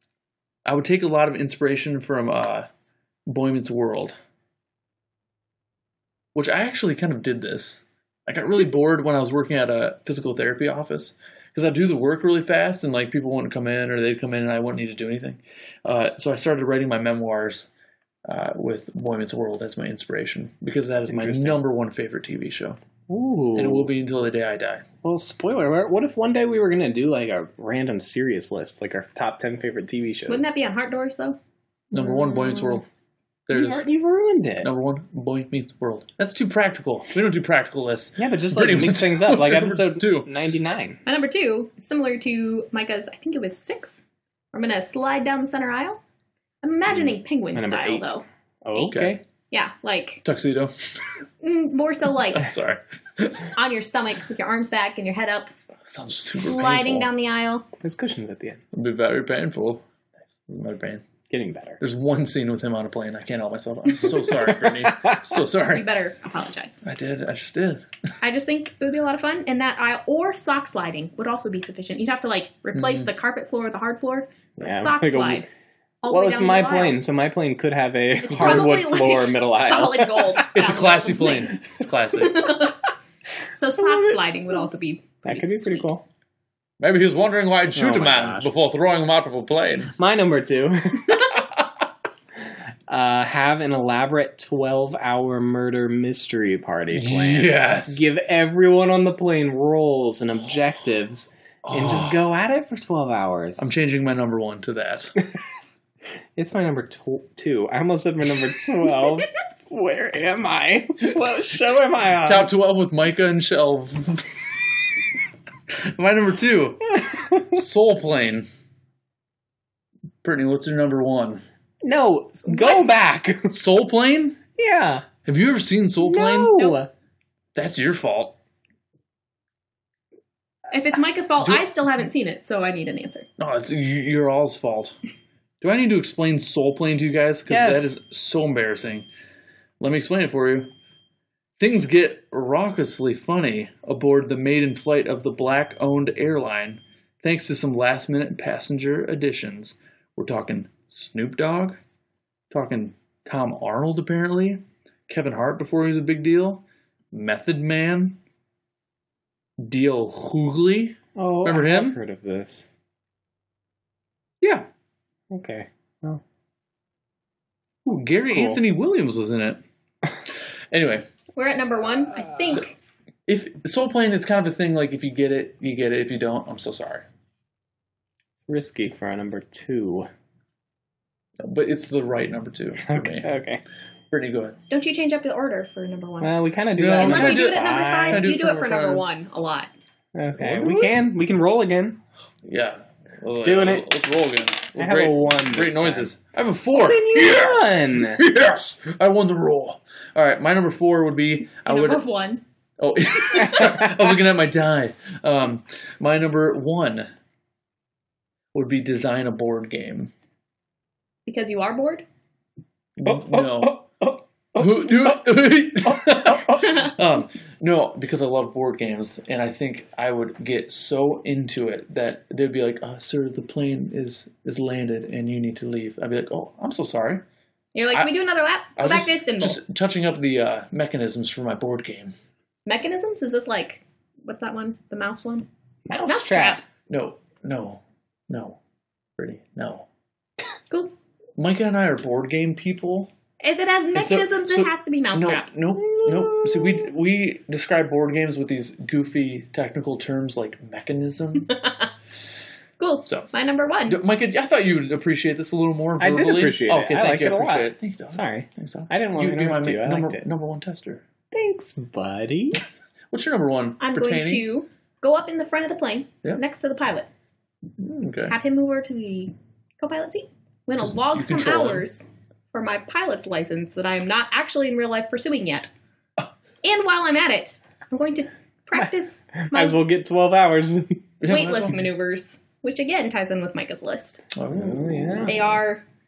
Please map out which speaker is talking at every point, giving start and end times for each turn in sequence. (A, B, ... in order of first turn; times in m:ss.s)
0:00.6-0:02.7 A
0:03.3-0:04.2 A
0:06.3-0:17.7 A
0:18.2-0:22.8 A
0:21.1-0:21.6 B
0:23.1-0:23.9 B
0:23.5-0:24.8 A
0:25.0-0:30.5 B
0:30.3-0:31.4 C
0:31.9-0:32.8 A
0:33.5-0:33.8 A
0:33.5-0:34.7 B
0:34.6-0:40.3 A
0:38.2-0:41.0 B
0:41.0-0:44.0 C
0:44.5-0:46.0 C
0:46.6-0:48.2 C
0:47.5-0:49.2 B
0:48.9-0:49.2 A
0:49.5-0:50.2 C
0:50.2-0:50.7 A
0:51.4-0:52.5 C
0:52.2-0:53.5 A
0:53.5-0:55.5 C
0:55.9-0:57.1 A
0:56.3-0:57.6 C
0:57.8-0:58.6 B
0:58.7-0:59.8 A
1:00.4-1:01.0 A
1:01.3-1:01.8 B
1:01.8-1:05.8 A
1:04.3-1:05.2 B
1:05.7-1:06.8 C
1:06.8-1:07.8 A
1:08.2-1:15.4 C
1:12.7-1:13.1 A
1:14.6-1:15.5 B
1:16.0-1:17.0 C
1:16.1-1:20.4 B
1:18.2-1:22.8 C
1:18.4-1:18.7 A
1:20.5-1:22.7 A
1:23.5-1:25.9 C
1:23.8-1:24.2 B
1:25.2-1:26.0 B
1:26.8-1:29.9 A
1:27.7-1:28.5 B
1:30.0-1:31.2 B
1:32.9-1:43.7 B
1:36.9-1:38.0 A
1:41.6-1:42.2 A
1:43.6-1:45.1 A
1:46.4-1:52.5 B
1:52.2-1:54.3 A
1:55.7-1:57.0 A
1:57.0-1:57.6 B
1:57.5-1:58.5 A
2:00.2-2:01.4 A
2:01.8-2:03.6 B
2:02.5-2:02.8 A
2:03.5-2:04.4 A
2:04.6-2:05.0 B
2:05.2-2:06.8 A
2:06.0-2:06.9 B
2:07.5-2:08.4 A
2:10.7-2:13.3 C
2:11.4-2:11.7 A
2:13.4-2:14.9 A
2:15.6-2:19.1 A
2:17.5-2:18.0 B
2:19.8-2:20.7 A
2:21.6-2:31.8 A
2:32.5-2:38.2 A
2:39.6-2:42.0 A
2:41.1-2:42.7 B
2:44.4-2:44.7 A
2:45.3-2:46.2 B
2:47.8-2:49.6 A
2:48.3-2:48.6 B
2:50.7-2:51.0 A
2:51.3-2:52.7 C
2:52.2-2:52.6 B
2:53.3-2:57.0 A
2:58.5-3:00.1 B
3:01.4-3:03.3 A
3:02.8-3:03.6 B
3:04.1-3:04.6 A
3:04.7-3:06.3 C
3:06.2-3:08.2 B
3:06.8-3:09.0 A
3:07.0-3:09.7 C
3:10.1-3:12.0 B
3:10.4-3:11.0 A
3:12.4-3:22.0 A
3:13.4-3:13.9 B
3:14.8-3:16.1 B
3:16.7-3:18.2 B
3:21.6-3:22.4 C
3:22.8-3:27.1 A
3:23.3-3:23.9 B
3:28.5-3:30.1 A
3:31.2-3:32.0 C
3:33.0-3:33.8 A
3:33.0-3:35.2 B
3:34.6-3:47.2 A
3:35.8-3:36.8 B
3:47.7-3:49.6 C
3:48.8-3:52.1 A
3:52.6-3:55.5 C
3:55.9-3:56.6 B
3:56.0-3:56.6 C
3:56.9-3:58.6 A
3:59.2-3:59.9 A
4:00.7-4:00.9 C
4:01.4-4:03.1 A
4:03.4-4:05.5 C
4:03.9-4:11.5 A
4:05.9-4:06.8 B
4:12.8-4:14.0 C
4:13.8-4:21.0 A
4:16.0-4:20.2 B
4:21.3-4:22.6 B
4:23.1-4:24.4 A
4:23.8-4:27.1 C
4:27.8-4:28.4 A
4:28.3-4:35.7 C
4:30.8-4:31.9 A
4:36.6-4:39.8 C
4:38.7-4:41.0 B
4:41.2-4:41.8 A
4:41.3-4:44.2 C
4:44.3-4:45.4 A
4:44.5-4:45.6 B
4:45.2-4:45.8 C